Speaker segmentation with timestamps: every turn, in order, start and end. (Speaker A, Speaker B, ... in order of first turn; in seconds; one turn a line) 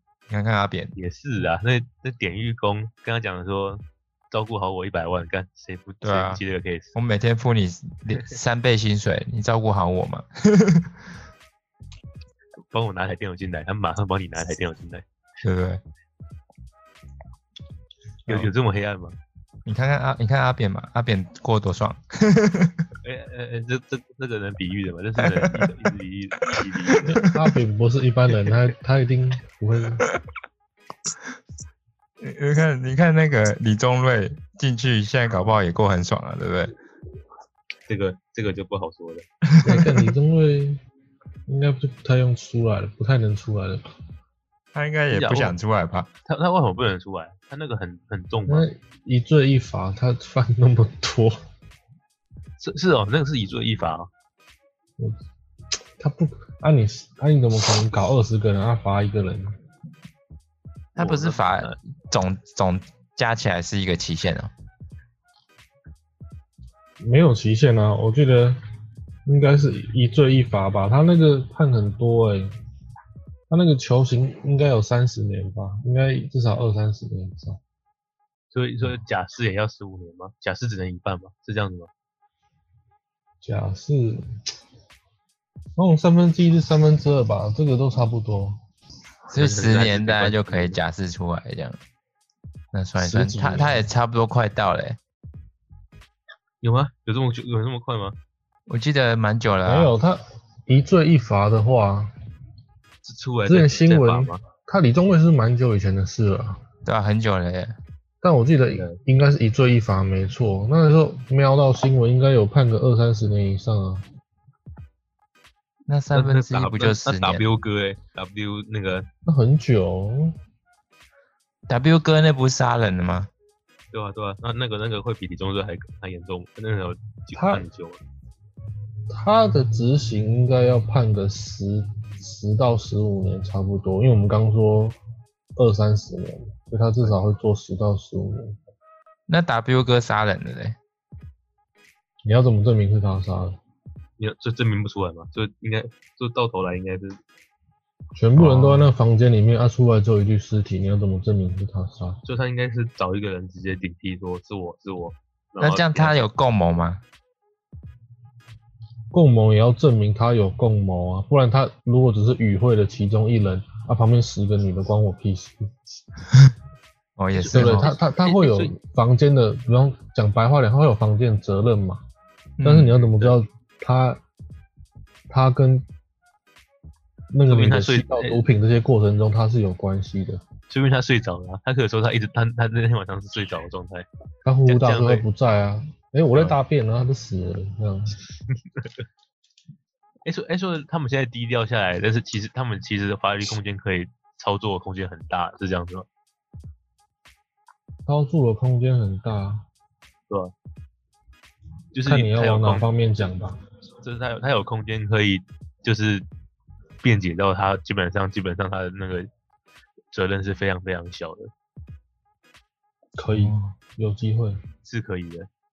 Speaker A: 0.3-0.9
Speaker B: 0.9-6.9
Speaker A: 6.0-6.4
Speaker A: 6.9-11.0
Speaker B: 12.7-15.0
Speaker A: 15.4-15.8
Speaker B: 18.3-19.1
Speaker A: 19.6-22.9
Speaker B: 23.0-27.2
Speaker A: 25.2-25.7
Speaker C: 27.0-30.1
Speaker A: 32.2-36.7
Speaker B: 37.9-39.2
Speaker A: 39.5-40.0
Speaker C: 39.6-40.8
Speaker C: 41.5-43.8
Speaker A: 44.7-46.1
Speaker B: 45.1-45.5
Speaker B: 46.2-48.6
Speaker C: 48.5-51.4
Speaker B: 52.6-54.1
Speaker C: 56.0-59.5
Speaker A: 60.9-64.5
Speaker B: 61.0-61.8
Speaker C: 67.0-68.6
Speaker C: 69.2-72.5
Speaker C: 73.5-77.6
Speaker B: 78.5-81.9
Speaker C: 83.4-84.2
Speaker C: 85.8-88.6
Speaker A: 89.3-91.8
Speaker B: 89.3-90.8
Speaker A: 92.7-95.0
Speaker C: 93.0-93.9
Speaker B: 96.6-98.2
Speaker A: 98.7-99.9
Speaker C: 99.6-102.1
Speaker B: 103.0-104.4
Speaker C: 103.5-106.6
Speaker A: 106.8-107.8
Speaker C: 108.2-114.0
Speaker A: 115.9-117.4
Speaker B: 116.1-119.1
Speaker C: 119.2-120.3
Speaker A: 121.7-123.3
Speaker B: 123.9-128.0
Speaker C: 127.3-127.7
Speaker C: 129.1-135.0
Speaker C: 135.6-138.6
Speaker A: 139.3-140.8
Speaker C: 142.2-143.6
Speaker B: 144.2-147.2
Speaker C: 148.2-152.2
Speaker A: 148.3-148.9
Speaker B: 152.2-156.2
Speaker A: 155.6-157.0
Speaker C: 159.1-165.7
Speaker A: 167.2-167.9
Speaker B: 167.3-168.7
Speaker C: 167.5-172.0
Speaker A: 172.6-173.0
Speaker C: 172.6-174.2
Speaker C: 175.3-175.8
Speaker C: 177.3-180.4
Speaker B: 177.5-178.4
Speaker B: 180.7-184.1
Speaker C: 184.4-188.2
Speaker B: 184.7-185.3
Speaker B: 188.8-189.0
Speaker B: 190.2-196.1
Speaker C: 198.1-199.6
Speaker B: 201.9-202.9
Speaker C: 202.1-203.6
Speaker B: 204.0-206.2
Speaker B: 207.0-209.3
Speaker B: 210.1-211.5
Speaker C: 213.2-214.6
Speaker A: 213.3-213.8
Speaker B: 214.8-215.5